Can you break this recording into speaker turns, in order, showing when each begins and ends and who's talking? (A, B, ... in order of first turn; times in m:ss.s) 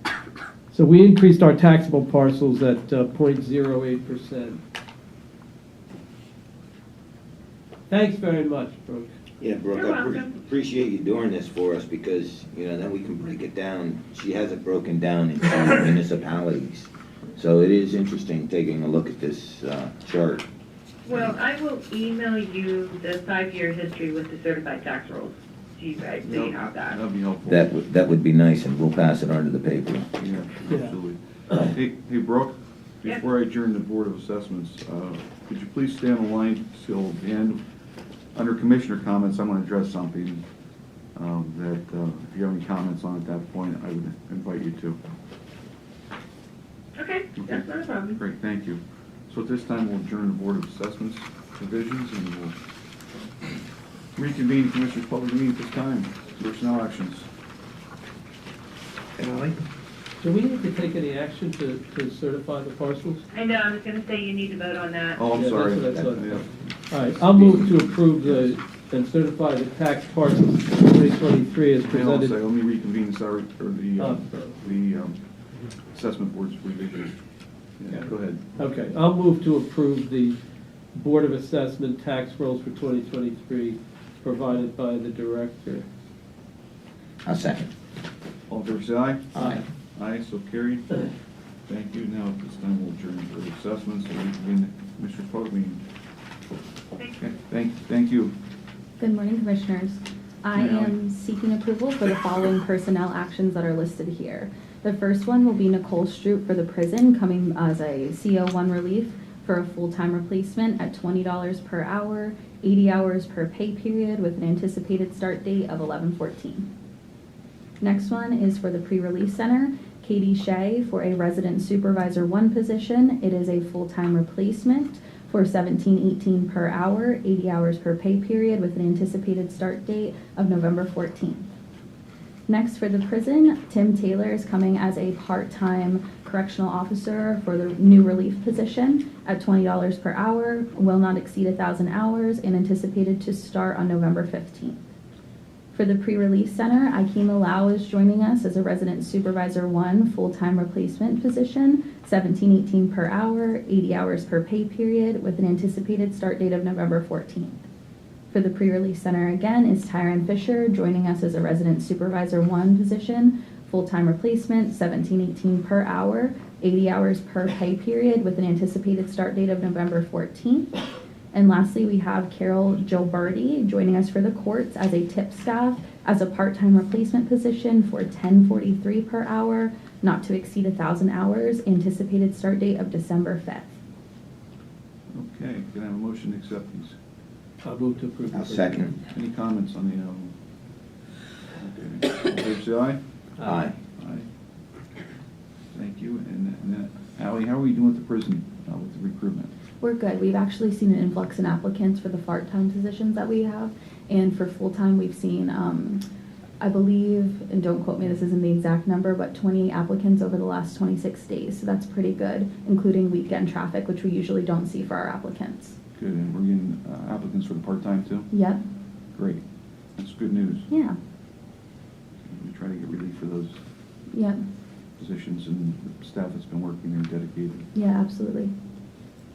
0:00.7-0:04.6 A
0:07.9-0:09.1 A
0:09.4-0:20.4 B
0:09.7-0:10.4 C
0:21.0-0:27.0 C
0:26.2-0:27.7 D
0:27.4-0:30.1 B
0:30.2-0:37.6 D
0:30.7-0:30.9 A
0:38.3-0:40.4 D
0:41.1-0:45.0 D
0:47.0-0:48.2 C
0:47.4-0:52.5 D
0:54.2-0:57.3 D
1:00.2-1:03.2 A
1:03.3-1:05.2 C
1:05.2-1:08.5 D
1:05.3-1:12.4 A
1:11.8-1:15.2 D
1:14.0-1:14.6 A
1:15.9-1:17.2 D
1:17.8-1:18.4 D
1:17.9-1:20.4 A
1:20.9-1:25.8 A
1:27.2-1:27.7 B
1:28.5-1:29.4 D
1:29.4-1:29.6 B
1:29.4-1:29.6 A
1:30.0-1:31.0 D
1:31.7-1:35.8 D
1:37.2-1:38.3 D
1:39.0-1:56.7 E
1:40.5-1:40.9 D
1:57.8-2:11.4 E
2:12.5-2:24.8 E
2:25.7-2:37.6 E
2:38.3-2:50.8 E
2:51.3-3:03.7 E
3:05.1-3:07.0 D
3:07.6-3:08.9 A
3:08.3-3:09.0 B
3:09.1-3:10.3 D
3:11.6-3:13.0 D
3:13.4-3:13.8 B
3:14.0-3:14.2 D
3:15.7-3:19.5 D
3:19.8-3:26.0 E
3:26.6-3:35.8 E
3:36.0-3:38.3 D
3:38.3-3:38.6 E
3:39.2-3:39.4 D
3:40.0-3:40.6 D
3:40.7-3:41.0 E
3:42.2-3:43.6 D
3:44.1-3:44.4 E
3:45.0-3:47.7 D
3:47.7-3:48.5 E